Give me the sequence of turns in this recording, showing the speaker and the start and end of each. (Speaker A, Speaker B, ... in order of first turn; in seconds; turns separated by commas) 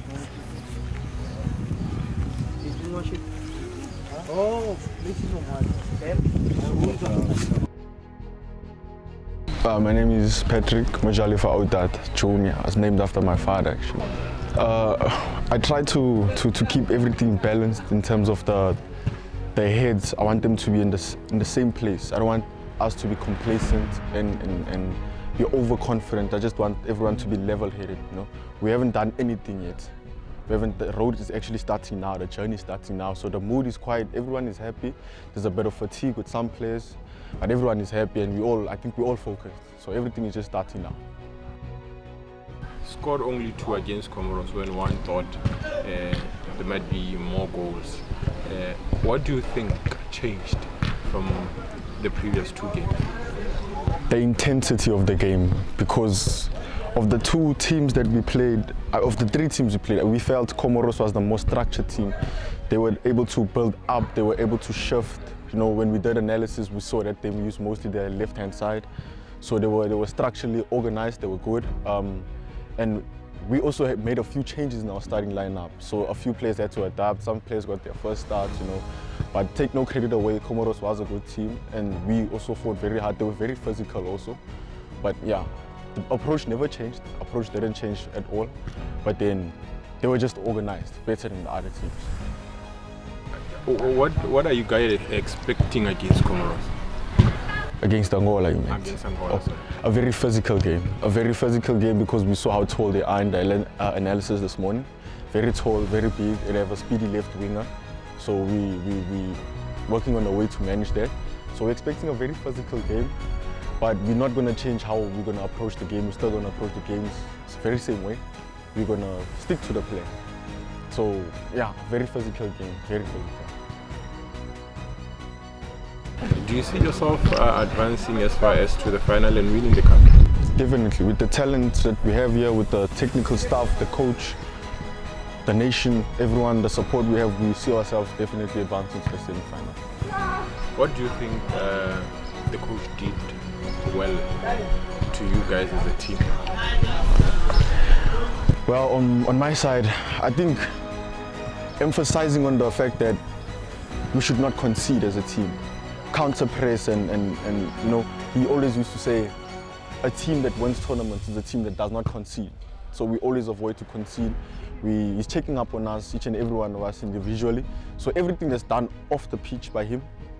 Speaker A: 2.6-3.2, Speaker A: 4.3-5.7, Speaker A: 6.8-7.2, Speaker B: 9.6-18.8, Speaker B: 19.6-29.9, Speaker B: 30.4-41.0, Speaker C: 42.8-53.1, Speaker B: 54.1-62.1, Speaker B: 62.7-68.9, Speaker B: 69.4-84.4, Speaker B: 85.0-92.1, Speaker C: 93.4-96.7, Speaker B: 97.8-113.1, Speaker C: 98.7-99.8, Speaker B: 113.8-118.2, Speaker B: 118.7-120.1, Speaker B: 120.9-123.5, Speaker C: 126.2-130.2, Speaker B: 130.5-134.4, Speaker B: 135.4-139.8, Speaker C: 140.7-146.5, Speaker B: 148.6-150.8, Speaker B: 151.8-153.2, Speaker B: 154.1-155.6, Speaker B: 156.1-159.3, Speaker B: 160.0-170.1